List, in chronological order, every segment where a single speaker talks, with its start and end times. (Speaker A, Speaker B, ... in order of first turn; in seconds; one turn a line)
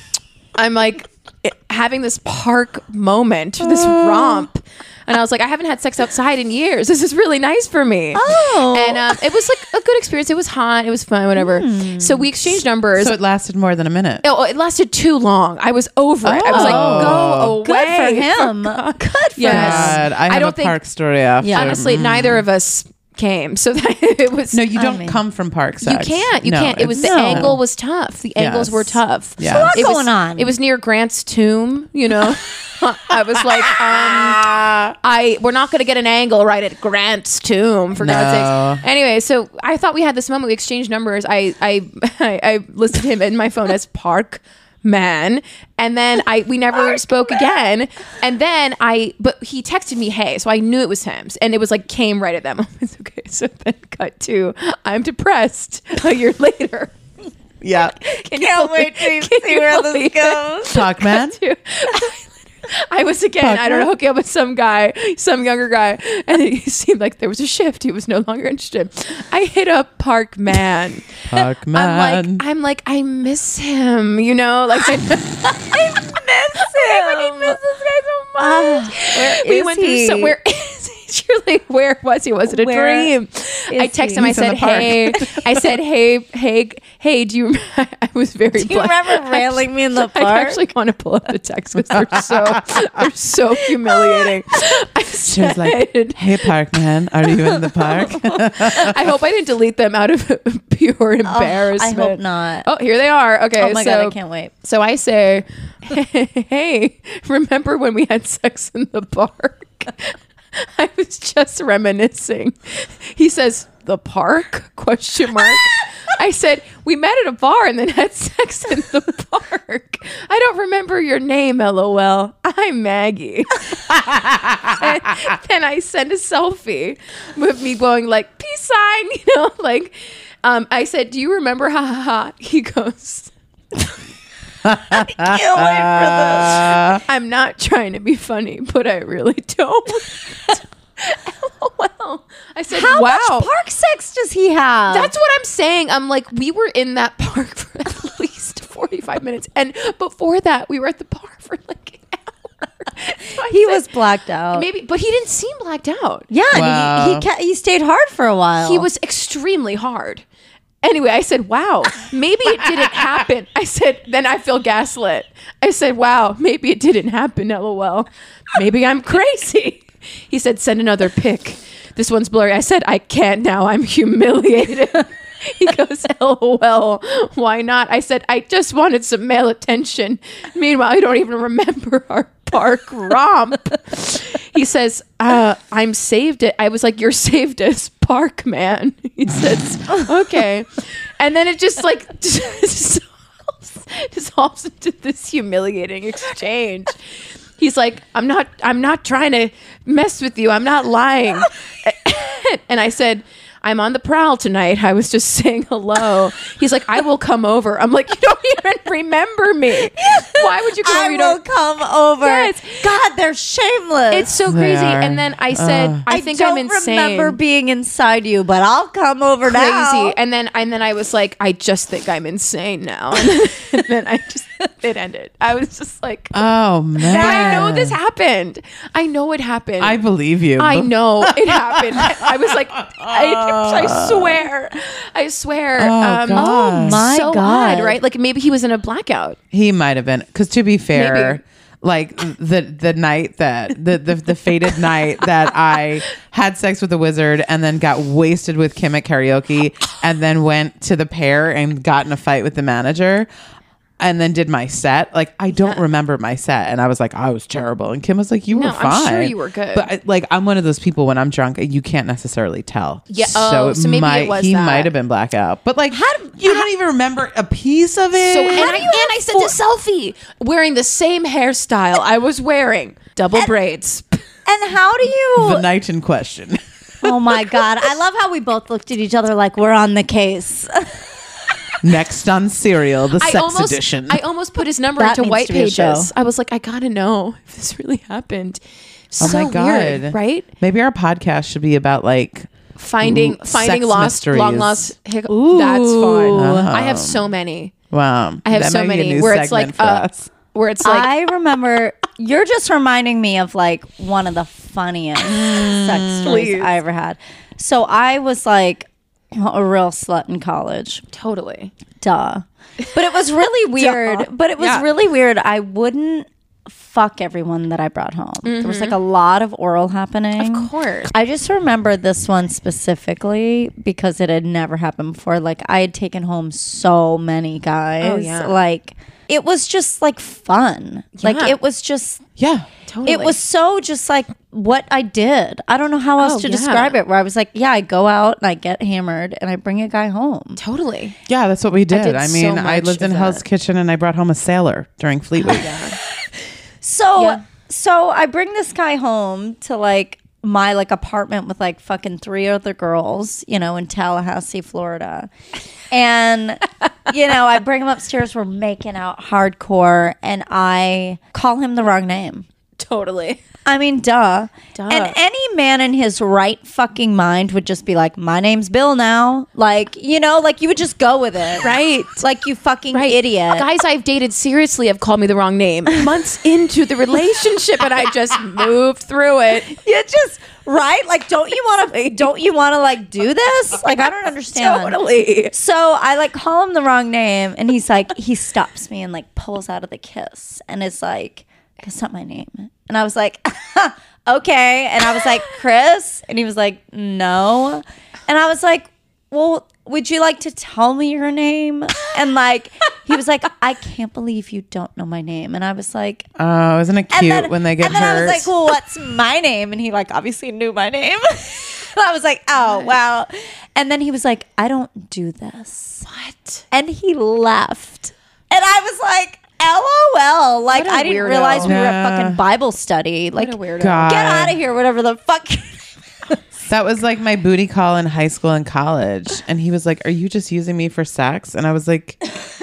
Speaker A: 0.6-13.1
Speaker B: 3.6-4.4
Speaker C: 8.2-9.2
Speaker C: 11.4-12.6
Speaker B: 13.0-14.2
Speaker A: 14.2-20.8
Speaker B: 16.2-17.6
Speaker C: 16.4-20.0
Speaker B: 19.5-22.4
Speaker C: 21.4-21.9
Speaker A: 21.5-24.7
Speaker B: 24.5-27.6
Speaker C: 24.8-25.2
Speaker A: 25.8-56.9
Speaker C: 27.0-27.6
Speaker B: 28.4-29.9
Speaker C: 29.4-30.5
Speaker B: 34.1-34.9
Speaker B: 38.0-38.8
Speaker B: 57.6-58.0
Speaker A: 57.9-96.5
Speaker C: 58.1-60.9
Speaker B: 60.7-61.4
Speaker B: 63.4-63.9
Speaker B: 71.3-72.4
Speaker C: 75.8-77.6
Speaker C: 78.4-80.3
Speaker C: 82.5-83.1
Speaker C: 83.7-84.3
Speaker B: 84.2-85.6
Speaker C: 88.5-90.6
Speaker B: 95.3-99.0
Speaker A: 98.0-124.0
Speaker C: 101.2-102.7
Speaker C: 103.6-104.5
Speaker B: 123.9-124.8
Speaker A: 124.7-133.3
Speaker B: 134.7-137.0
Speaker C: 134.9-137.0
Speaker A: 137.0-143.5
Speaker C: 142.7-145.1
Speaker A: 144.9-153.9
Speaker C: 153.4-154.7
Speaker A: 154.5-156.3
Speaker C: 156.3-158.9
Speaker B: 156.5-157.3
Speaker A: 158.6-160.2
Speaker A: 160.8-197.0
Speaker A: 197.6-211.4
Speaker C: 209.9-214.4
Speaker A: 212.2-212.8
Speaker A: 214.1-217.4
Speaker B: 214.5-216.1
Speaker C: 216.1-220.2
Speaker A: 219.5-226.4
Speaker B: 226.3-228.0
Speaker A: 227.1-230.0
Speaker C: 227.1-227.8
Speaker B: 229.8-232.3
Speaker A: 230.6-239.4
Speaker B: 232.8-234.4
Speaker B: 235.8-237.0
Speaker C: 236.3-238.0
Speaker B: 239.5-253.3
Speaker A: 240.9-241.4
Speaker B: 254.0-268.9
Speaker A: 258.5-259.9
Speaker A: 263.1-264.9
Speaker C: 265.9-266.7
Speaker A: 268.3-274.2
Speaker C: 268.5-269.5
Speaker C: 274.5-275.6
Speaker B: 275.4-276.6
Speaker C: 277.0-281.1
Speaker B: 281.8-284.2
Speaker A: 283.2-288.6
Speaker C: 285.0-286.1
Speaker A: 289.1-290.5
Speaker B: 289.2-292.5
Speaker A: 292.8-297.7
Speaker B: 293.0-294.9
Speaker C: 295.3-296.7
Speaker B: 296.3-297.3
Speaker B: 297.9-300.3
Speaker A: 298.5-301.1
Speaker C: 300.8-311.0
Speaker B: 305.3-306.2
Speaker A: 306.2-306.7
Speaker A: 311.1-311.7
Speaker C: 312.0-332.2
Speaker A: 313.8-314.9
Speaker A: 318.4-319.0
Speaker A: 320.4-321.1
Speaker A: 328.0-328.6
Speaker A: 331.2-331.6
Speaker B: 332.4-332.7
Speaker A: 332.9-333.4
Speaker C: 333.1-340.6
Speaker A: 336.2-337.0
Speaker A: 340.6-341.2
Speaker B: 341.3-345.7
Speaker A: 341.9-343.4
Speaker A: 345.4-346.0
Speaker C: 346.8-355.3
Speaker A: 347.1-347.4
Speaker C: 355.9-362.4
Speaker A: 362.8-363.4
Speaker C: 363.7-373.7
Speaker A: 364.8-365.2
Speaker A: 371.6-372.3
Speaker A: 372.9-379.7
Speaker C: 379.7-384.9
Speaker A: 384.5-385.5
Speaker C: 385.5-406.3
Speaker B: 406.4-408.5
Speaker C: 407.1-416.0
Speaker A: 412.6-412.9
Speaker A: 416.1-416.6
Speaker C: 416.7-426.3
Speaker A: 420.7-421.8
Speaker B: 421.6-422.4
Speaker A: 423.3-424.4
Speaker B: 423.8-424.6
Speaker B: 426.6-432.2